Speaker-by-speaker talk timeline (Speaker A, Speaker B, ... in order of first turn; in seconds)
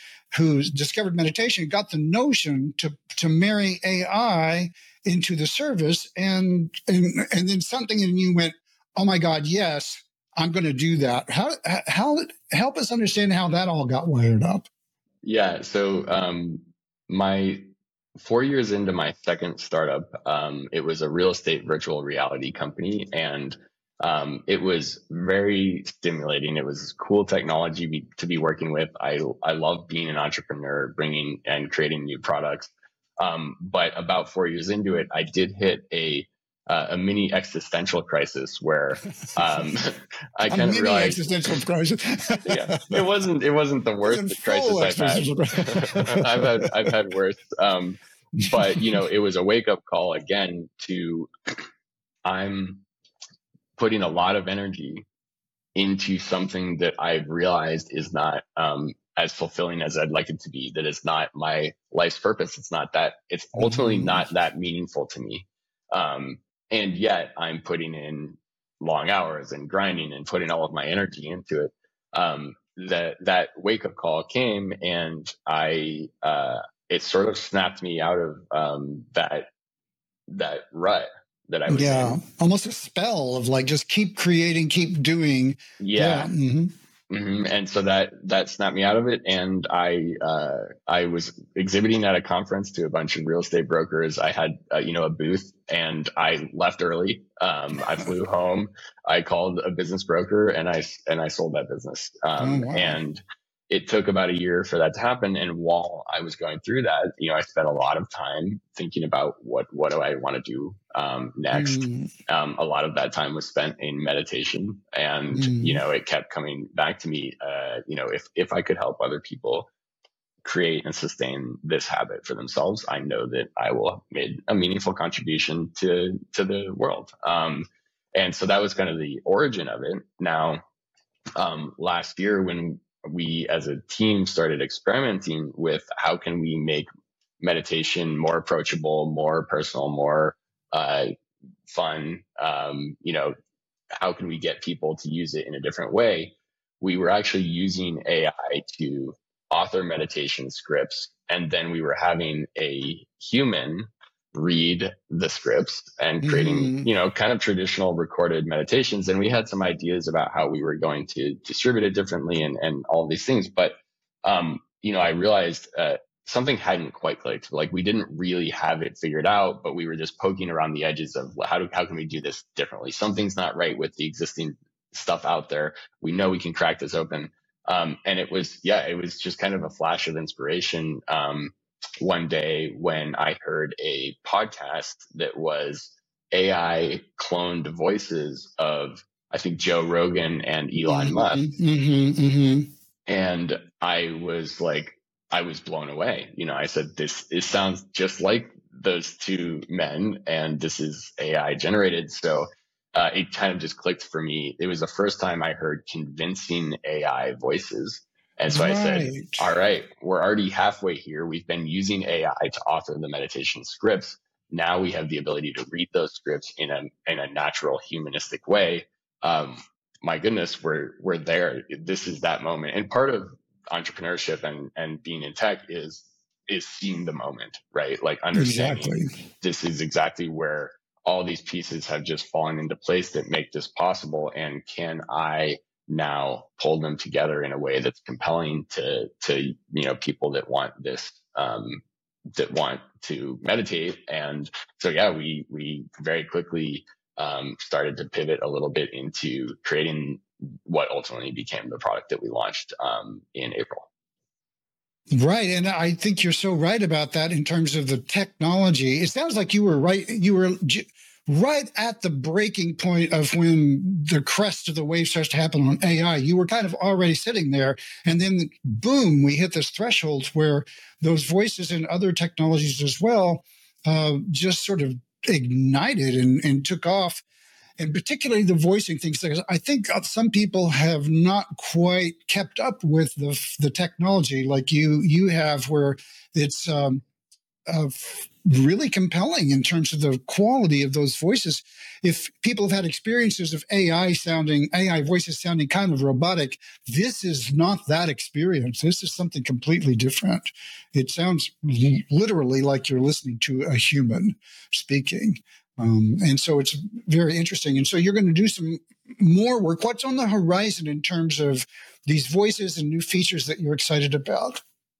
Speaker A: 0.3-14.7, 40.5-43.0, 44.0-46.9, 63.5-64.2, 81.7-86.7, 102.4-103.0, 111.5-112.1, 115.3-115.8, 156.2-156.9, 190.8-192.7, 208.5-209.4, 228.3-229.1, 255.1-277.2, 277.8-287.0, 287.7-314.6
Speaker B: 15.2-41.2, 42.4-51.3, 52.2-52.8, 53.8-55.0, 55.7-79.5, 80.3-82.2, 85.8-86.3, 87.1-119.7, 120.4-130.6, 131.4-136.9, 137.4-141.1, 141.7-143.3, 144.0-191.4, 193.1-241.8, 242.3-253.9